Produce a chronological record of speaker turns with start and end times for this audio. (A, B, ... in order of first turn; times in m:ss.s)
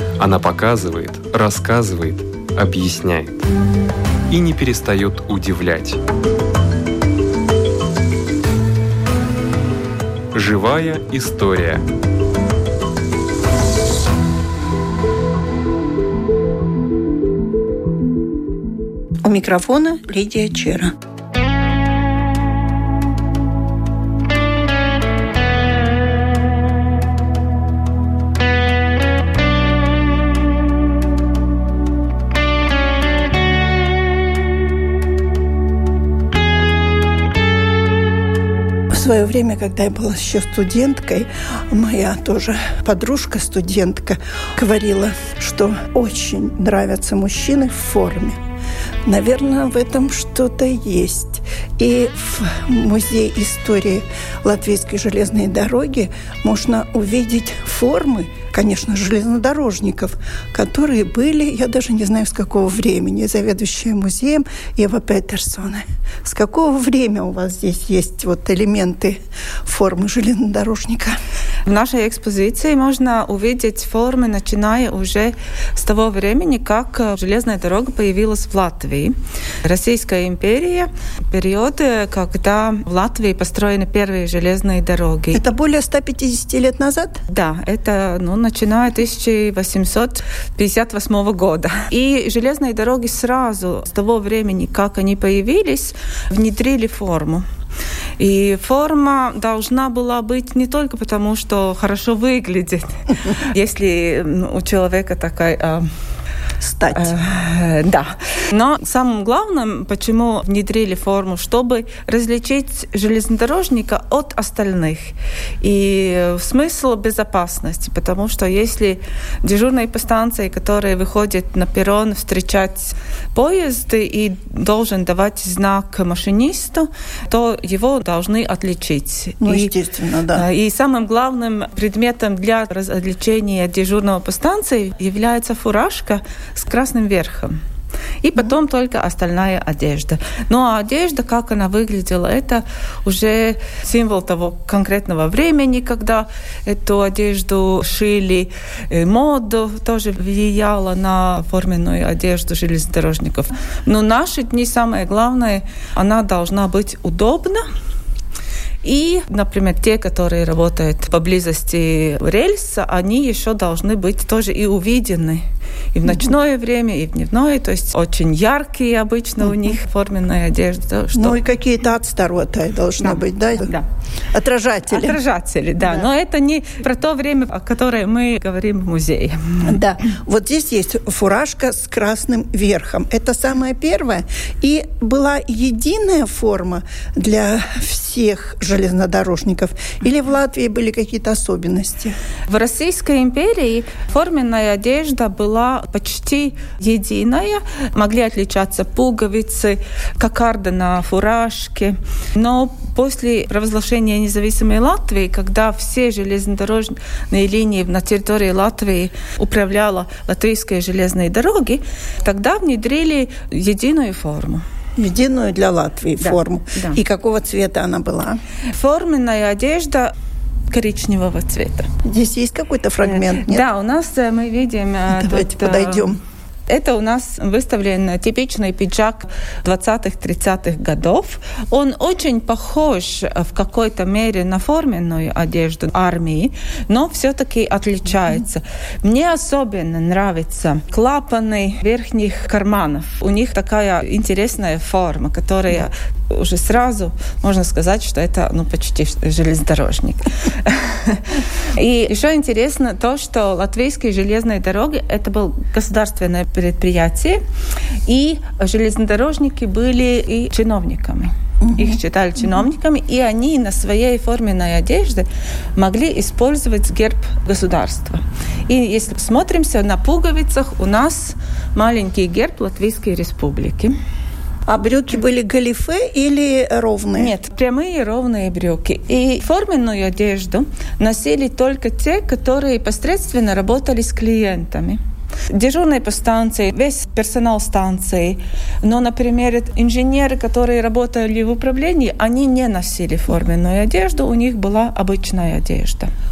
0:00.2-0:03.3 A
0:04.3-0:06.0 A
0:10.3-0:11.8 A
0:19.2-0:20.9 B
0:38.9-0:48.4 B
0:49.0-1:11.2 B
1:11.6-1:25.4 C
1:25.3-1:27.2 B
1:27.3-1:37.4 C
1:38.2-1:45.9 C
1:46.6-1:47.1 B
1:46.9-2:09.7 C
2:09.4-2:10.4 B
2:10.3-2:17.6 C
2:18.2-2:37.6 C
2:38.8-2:51.4 C
2:51.1-2:53.7 B
2:53.0-2:53.8 C
2:54.3-2:55.2 B
2:54.9-2:59.8 C
2:59.6-3:12.2 B
3:12.5-3:34.6 C
3:35.0-3:38.4 B
3:36.2-3:37.0 C
3:38.7-3:40.1 C
3:40.7-3:41.9 C
3:42.0-3:43.6 B
3:43.0-3:46.1 C
3:45.1-3:46.2 B
3:46.7-4:17.4 C
4:18.0-4:33.9 C
4:21.6-4:22.0 B
4:34.7-4:37.3 B
4:37.2-4:45.0 C
4:45.5-4:56.1 C